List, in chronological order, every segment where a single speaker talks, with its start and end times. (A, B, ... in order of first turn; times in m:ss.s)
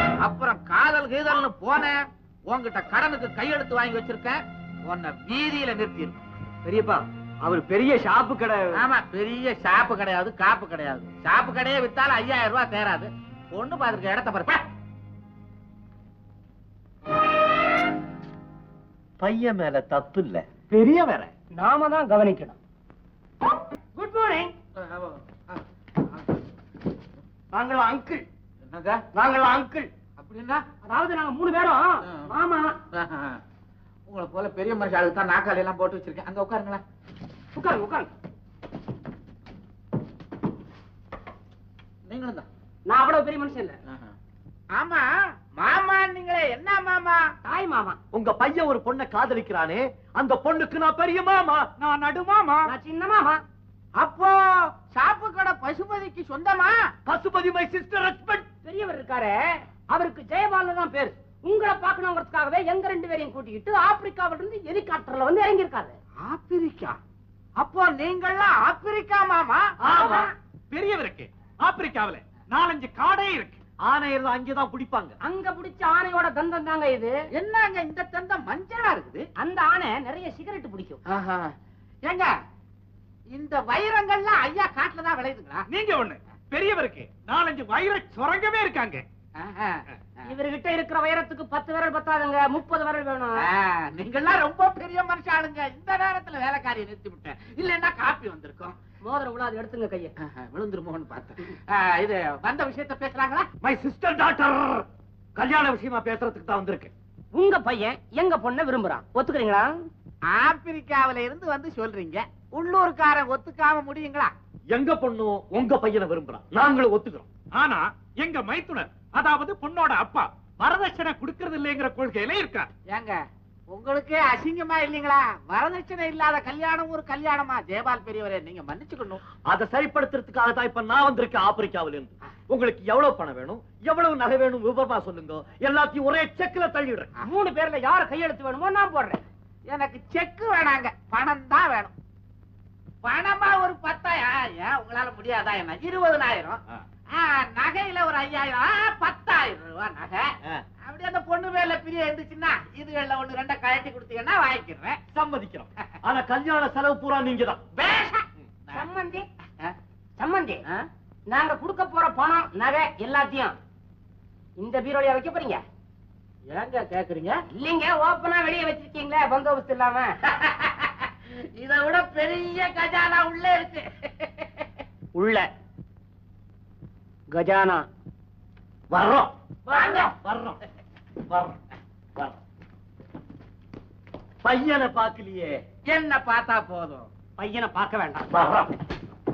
0:00.2-0:02.0 A
0:02.5-0:06.2 A
0:06.6-0:08.7 B
0:08.7-0:14.6 A
0:19.2-0:21.3 C
0:21.5-0:22.6 D
0:24.0-0:24.5 D
0:24.8-0:25.6 A
0:27.5-0:28.2 D
0:28.7-0:29.0 A
0:29.1-0:29.7 D
0:29.4-0:29.7 B
0:30.2-0:30.6 A
0:30.8-0:32.8 D
0:32.0-0:32.3 A
0:32.9-0:33.4 A
0:34.1-0:36.8 A
0:37.5-0:38.1 D
0:42.1-0:42.4 A
0:42.9-0:43.8 D
0:43.9-0:44.1 A
0:44.7-0:47.2 A
0:47.4-0:48.0 D
0:48.1-0:51.6 C
0:51.8-0:52.7 E
0:52.6-0:53.4 D
0:54.0-0:56.8 A
0:57.0-0:58.5 C
0:58.6-1:06.0 D
1:06.2-1:07.0 A
1:07.6-1:10.0 A
1:09.8-1:10.3 D
1:10.7-1:13.6 E
1:13.8-1:15.2 C
1:15.2-1:17.1 D
1:17.3-1:19.2 A
1:19.4-1:21.0 D
1:21.0-1:21.5 A
1:22.0-1:22.3 A
1:23.3-1:25.6 A
1:25.7-1:29.0 E
1:29.4-1:29.8 A
1:30.2-1:33.4 D
1:33.4-1:38.8 A
1:39.0-1:40.1 D
1:40.2-1:43.5 A
1:43.6-1:46.9 C
1:47.3-1:49.9 D
1:50.3-1:54.3 A
1:54.7-1:57.3 C
1:57.5-2:02.7 E
2:02.9-2:03.2 A
2:03.7-2:09.2 A
2:09.5-2:17.1 C
2:17.2-2:19.2 D
2:19.7-2:21.9 A
2:23.0-2:26.6 A
2:27.1-2:30.3 A
2:30.8-2:35.0 A
2:35.1-2:37.6 C
2:37.8-2:39.2 D
2:40.2-2:40.6 D
2:41.3-2:43.6 D
2:44.6-2:45.6 D
2:46.5-2:47.4 A
2:47.5-2:50.2 D
2:50.2-2:54.7 A
2:55.1-2:55.5 D
2:57.3-2:57.9 D
2:58.9-2:59.3 C
2:59.7-3:00.1 D
2:59.7-3:00.1 A
3:00.1-3:00.6 C
3:01.3-3:01.6 C
3:04.4-3:05.6 C
3:05.9-3:07.1 A
3:07.4-3:08.3 D
3:08.3-3:08.7 C